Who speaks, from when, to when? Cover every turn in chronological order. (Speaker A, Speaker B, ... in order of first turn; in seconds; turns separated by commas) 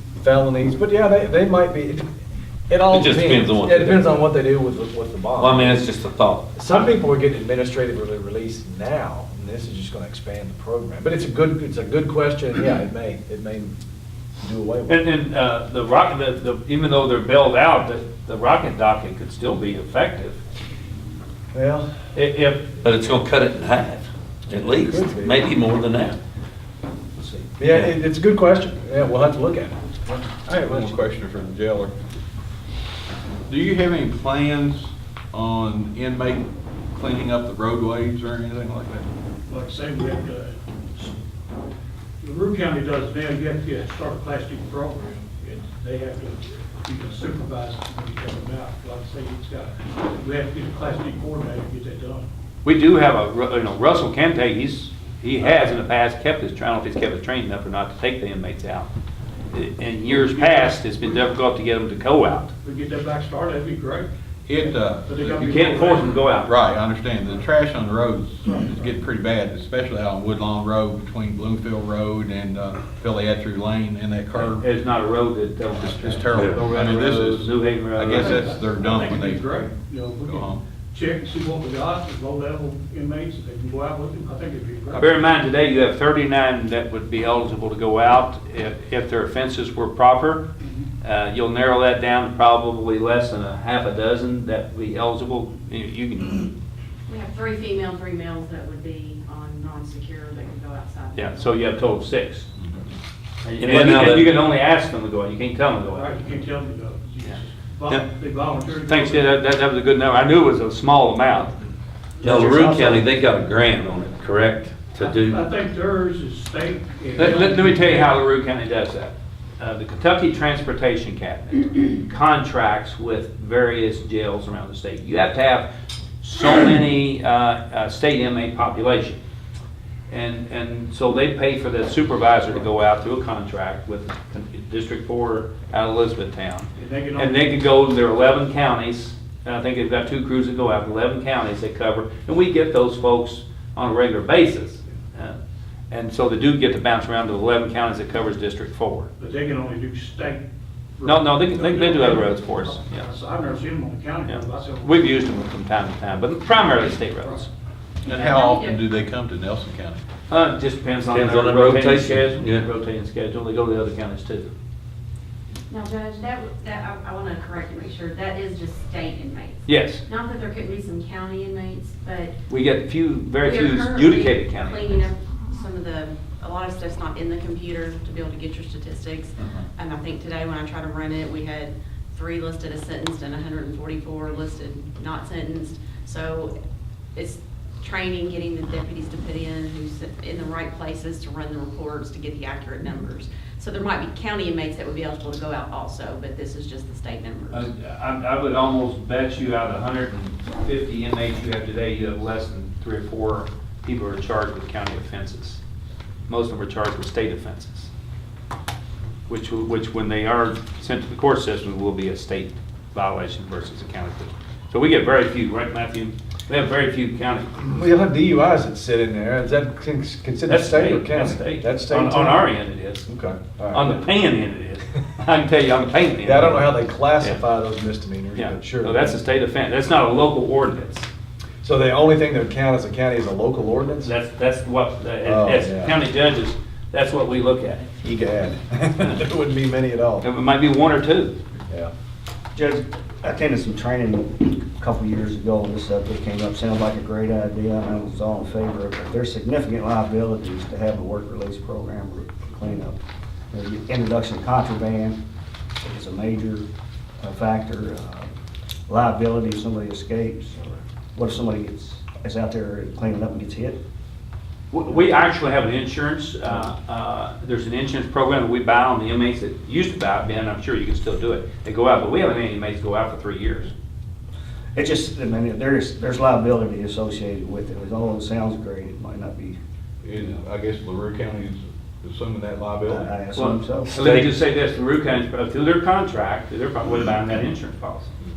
Speaker A: 0.1-2.0, Speaker A: 2.7-5.8, Speaker B: 2.9-4.2, Speaker B: 5.3-6.5, Speaker A: 6.5-13.7, Speaker A: 14.4-15.0, Speaker C: 14.9-20.4, Speaker A: 21.5-21.9, Speaker C: 22.1-22.7, Speaker B: 22.8-26.2, Speaker A: 24.5-25.4, Speaker A: 27.6-30.9, Speaker D: 30.5-31.9, Speaker D: 33.5-39.0, Speaker E: 39.5-41.1, Speaker E: 42.2-52.3, Speaker C: 52.6-58.9, Speaker C: 59.5-62.5, Speaker E: 60.1-61.2, Speaker E: 62.6-66.2, Speaker D: 64.5-65.6, Speaker C: 65.3-66.5, Speaker D: 66.2-74.6, Speaker E: 68.4-69.0, Speaker C: 74.5-78.5, Speaker D: 75.8-79.6, Speaker B: 76.3-76.7, Speaker E: 78.1-85.3, Speaker D: 80.2-80.6, Speaker C: 84.9-90.5, Speaker E: 90.6-90.9, Speaker C: 91.0-96.5, Speaker F: 97.1-101.5, Speaker C: 101.1-102.5, Speaker B: 103.5-104.4, Speaker C: 103.6-106.1, Speaker E: 105.9-109.4, Speaker C: 108.7-111.5, Speaker G: 112.2-113.1, Speaker B: 112.2-115.4, Speaker E: 114.9-118.2, Speaker C: 117.2-125.7, Speaker C: 126.2-129.2, Speaker C: 130.1-145.3, Speaker E: 136.8-137.4, Speaker C: 145.9-149.1, Speaker E: 149.2-150.4, Speaker E: 151.0-155.1, Speaker C: 151.0-153.0, Speaker C: 154.2-157.5, Speaker D: 158.0-160.0, Speaker F: 158.1-158.8, Speaker C: 160.3-164.5, Speaker B: 161.1-162.7, Speaker F: 165.7-172.3, Speaker C: 169.7-170.0, Speaker C: 172.5-175.1, Speaker F: 173.4-186.5, Speaker F: 187.1-197.7, Speaker C: 197.5-205.6, Speaker C: 206.3-207.9, Speaker C: 209.3-217.6, Speaker A: 217.6-222.4, Speaker C: 220.4-223.1, Speaker A: 223.1-224.0, Speaker C: 223.7-227.4, Speaker A: 226.2-229.2, Speaker C: 228.3-231.1, Speaker A: 231.6-234.1, Speaker C: 234.0-237.9, Speaker A: 235.2-235.9, Speaker A: 238.0-240.2, Speaker C: 240.2-241.3, Speaker G: 242.5-253.0, Speaker G: 253.5-255.2, Speaker G: 255.8-256.6, Speaker G: 257.2-258.3, Speaker G: 258.9-263.8, Speaker C: 264.7-273.7, Speaker G: 274.7-279.6, Speaker D: 280.0-283.1, Speaker G: 282.9-283.9, Speaker C: 283.3-288.1, Speaker B: 283.9-284.3